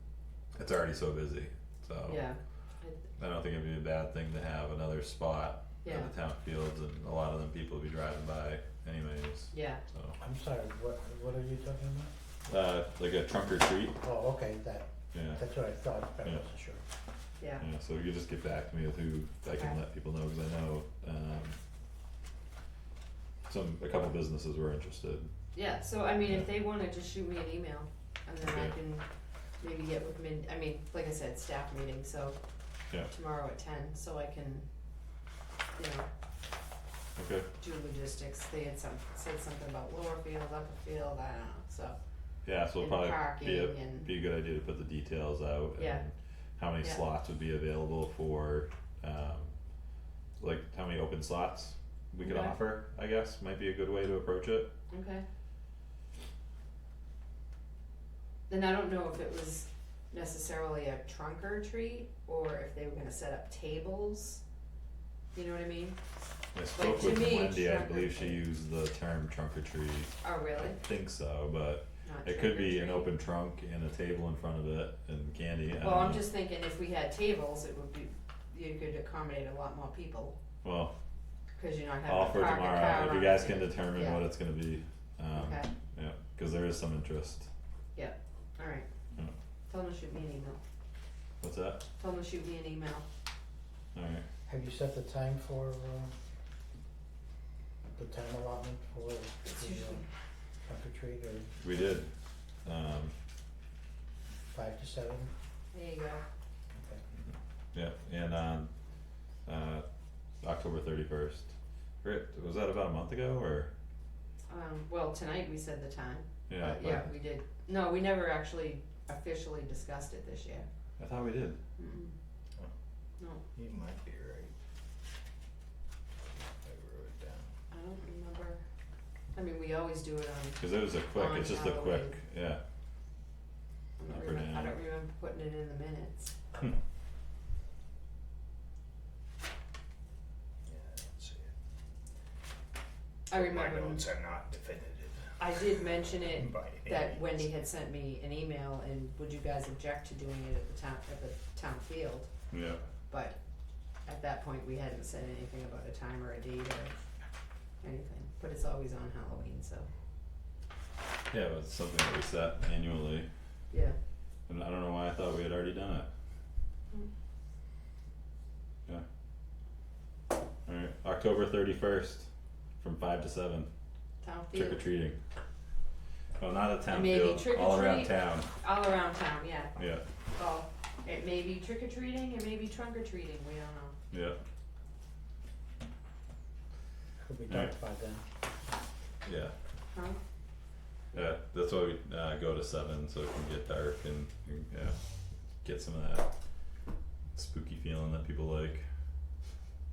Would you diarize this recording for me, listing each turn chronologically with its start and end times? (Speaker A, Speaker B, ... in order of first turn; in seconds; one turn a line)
Speaker A: 0.5-2.2
Speaker B: 2.0-3.0
Speaker A: 3.2-10.2
Speaker B: 5.8-6.1
Speaker B: 9.5-9.8
Speaker C: 10.2-12.1
Speaker A: 12.5-14.0
Speaker C: 14.0-16.8
Speaker A: 15.1-15.4
Speaker A: 17.6-21.6
Speaker B: 19.5-19.8
Speaker A: 23.4-25.3
Speaker B: 25.5-29.0
Speaker A: 26.2-26.5
Speaker A: 28.4-28.7
Speaker B: 29.6-32.4
Speaker B: 33.1-34.7
Speaker B: 35.8-36.1
Speaker A: 37.2-37.5
Speaker B: 37.6-42.0
Speaker A: 42.4-49.5
Speaker B: 42.8-44.1
Speaker B: 45.8-46.0
Speaker A: 50.4-54.7
Speaker B: 52.2-52.6
Speaker B: 54.9-55.2
Speaker B: 58.5-64.4
Speaker B: 65.3-66.0
Speaker A: 66.5-76.2
Speaker B: 66.7-68.4
Speaker B: 70.2-70.8
Speaker B: 72.0-73.1
Speaker B: 75.8-80.3
Speaker A: 80.6-80.9
Speaker B: 81.6-84.2
Speaker A: 82.0-87.5
Speaker B: 85.3-85.7
Speaker B: 87.9-88.9
Speaker B: 89.7-90.6
Speaker A: 91.4-91.8
Speaker B: 92.0-93.0
Speaker A: 93.9-94.2
Speaker C: 94.5-96.1
Speaker C: 98.0-100.0
Speaker B: 99.4-100.0
Speaker C: 100.6-101.5
Speaker A: 101.6-102.1
Speaker A: 102.6-103.1
Speaker C: 104.5-105.3
Speaker B: 105.7-106.2
Speaker C: 106.7-107.0
Speaker A: 107.7-108.7
Speaker A: 109.4-109.8
Speaker A: 110.4-113.7
Speaker B: 114.5-120.7
Speaker A: 116.5-117.1
Speaker A: 121.0-121.6
Speaker B: 121.8-122.1
Speaker D: 123.5-124.5
Speaker D: 126.3-127.5
Speaker B: 127.7-128.6
Speaker B: 129.3-132.2
Speaker A: 130.6-132.6
Speaker B: 134.0-136.3
Speaker A: 134.1-134.7
Speaker D: 140.6-141.5
Speaker B: 143.3-144.0
Speaker D: 143.3-147.5
Speaker B: 145.4-152.3
Speaker A: 152.5-152.8
Speaker B: 153.1-153.4
Speaker B: 154.0-156.9
Speaker B: 157.8-159.9
Speaker A: 161.3-163.3
Speaker B: 163.7-163.9
Speaker A: 164.5-166.1
Speaker A: 170.7-172.3
Speaker A: 172.8-173.7
Speaker B: 174.2-174.8
Speaker A: 174.5-175.2
Speaker A: 176.4-178.5
Speaker B: 176.9-179.7
Speaker A: 179.8-180.0
Speaker B: 180.3-183.9
Speaker A: 184.1-184.4
Speaker C: 187.2-188.2
Speaker A: 189.2-189.5
Speaker B: 189.9-190.2
Speaker A: 191.1-195.0
Speaker A: 195.6-196.3
Speaker A: 197.3-198.8